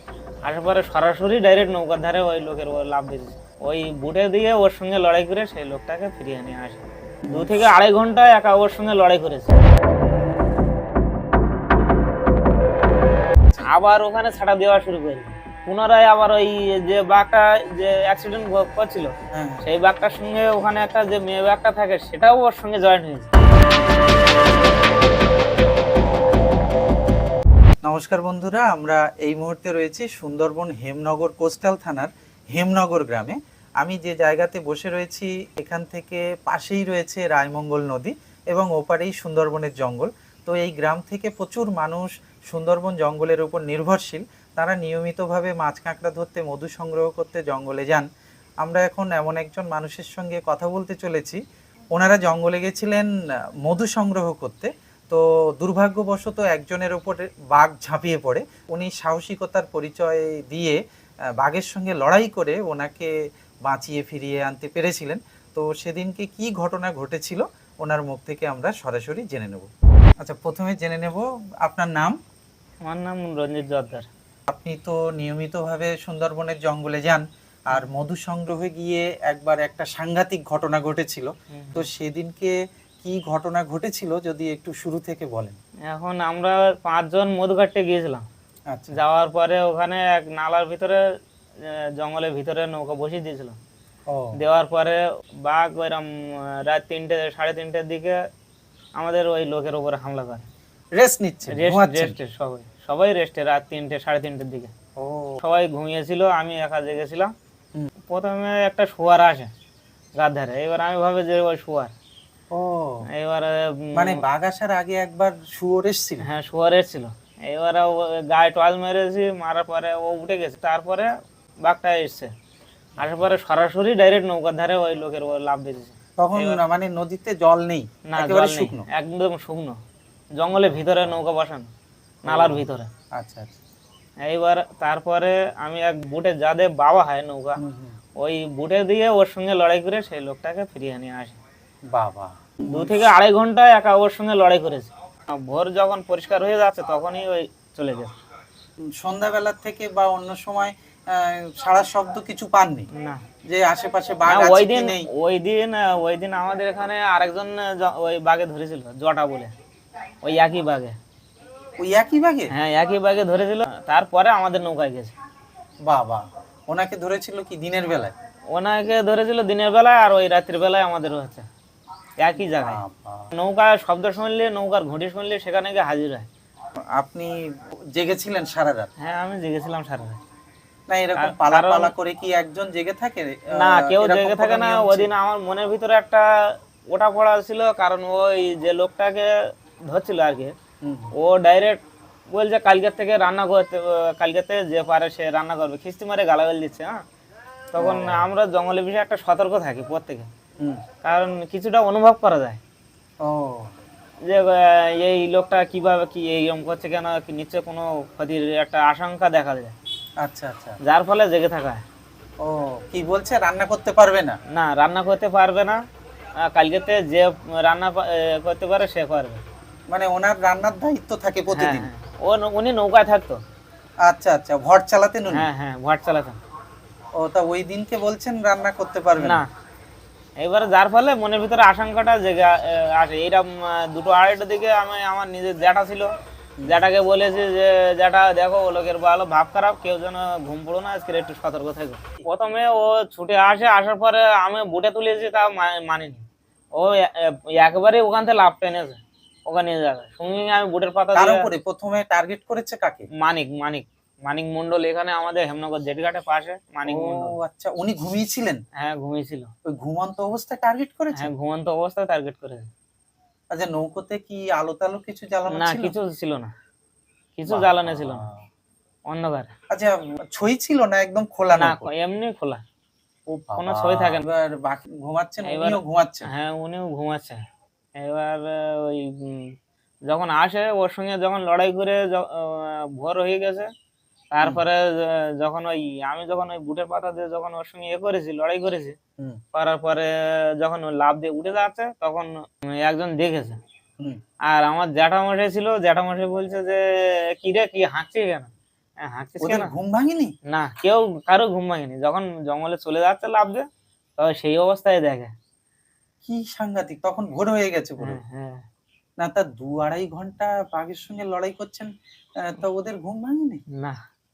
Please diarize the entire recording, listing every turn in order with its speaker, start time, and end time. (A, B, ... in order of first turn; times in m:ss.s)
0:00.4-0:09.6 A
0:07.3-0:07.6 B
0:13.6-0:19.1 A
0:19.3-0:19.6 B
0:19.6-0:23.3 A
0:27.8-0:48.1 B
0:48.6-0:51.4 B
0:51.9-0:53.1 B
0:53.6-1:00.8 B
1:01.4-1:03.1 B
1:03.6-1:09.7 B
1:10.2-1:12.2 B
1:12.8-1:14.1 A
1:14.5-1:25.6 B
1:21.5-1:21.8 A
1:25.9-1:28.2 A
1:28.7-1:29.0 B
1:28.9-1:31.0 A
1:31.6-1:33.6 A
1:34.1-1:34.4 B
1:34.4-1:38.2 A
1:39.0-1:40.4 A
1:41.0-1:42.1 B
1:41.5-1:44.7 A
1:45.0-1:45.4 B
1:45.4-1:47.3 A
1:48.1-1:49.5 A
1:50.2-1:51.9 A
1:52.5-1:53.0 B
1:53.1-1:54.2 A
1:53.9-1:56.2 B
1:56.2-2:01.1 A
2:01.6-2:02.3 A
2:03.0-2:03.2 B
2:03.0-2:06.6 A
2:06.2-2:08.9 B
2:08.1-2:09.8 A
2:10.4-2:11.7 A
2:10.6-2:11.2 B
2:12.2-2:12.9 A
2:12.3-2:13.6 B
2:14.2-2:17.6 A
2:17.6-2:18.0 B
2:18.2-2:21.4 A
2:21.9-2:23.0 B
2:22.7-2:28.2 A
2:28.8-2:32.9 B
2:32.9-2:33.2 A
2:33.4-2:35.1 B
2:34.3-2:39.5 A
2:40.2-2:41.0 A
2:41.8-2:42.5 B
2:42.5-2:45.1 A
2:45.9-2:48.1 B
2:48.5-2:51.5 A
2:52.2-2:52.8 A
2:52.5-2:53.3 B
2:53.3-2:56.3 A
2:57.0-2:57.3 B
2:57.9-2:58.9 B
2:59.0-3:00.2 A
3:00.9-3:05.1 B
3:01.2-3:01.9 A
3:03.5-3:09.3 A
3:09.9-3:10.5 A
3:10.8-3:11.1 B
3:11.1-3:17.0 A
3:17.7-3:20.3 A
3:17.8-3:18.2 B
3:21.0-3:22.6 A
3:23.2-3:23.7 B
3:24.2-3:29.8 A
3:30.2-3:30.8 B
3:30.8-3:31.8 A
3:32.4-3:34.4 B
3:34.5-3:35.8 A
3:36.4-3:39.4 A
3:39.9-3:41.9 B
3:41.5-3:43.4 A
3:44.0-3:45.5 B
3:45.3-3:46.4 A
3:47.2-3:49.4 B
3:49.2-3:49.5 A
3:50.4-3:56.1 A
3:56.6-4:11.5 A
4:11.2-4:13.1 B
4:13.2-4:17.4 A
4:16.8-4:18.6 B
4:18.8-4:19.5 A
4:19.7-4:21.3 B
4:21.2-4:22.7 A
4:23.5-4:25.9 B
4:25.5-4:26.5 A
4:27.4-4:28.2 A
4:27.5-4:28.4 B
4:29.1-4:29.5 A
4:29.7-4:31.9 B
4:31.6-4:32.6 A
4:33.3-4:36.3 B
4:33.6-4:34.3 A
4:35.4-4:37.4 A
4:38.0-4:39.5 A
4:40.1-4:43.7 A
4:44.3-4:49.0 A
4:49.5-4:53.6 A
4:54.5-4:58.5 A
4:59.0-4:59.7 A
4:59.4-5:00.3 B
5:00.5-5:03.6 A
5:04.2-5:05.3 A
5:06.2-5:08.2 B
5:08.0-5:08.6 A
5:09.2-5:13.6 B
5:13.7-5:14.0 A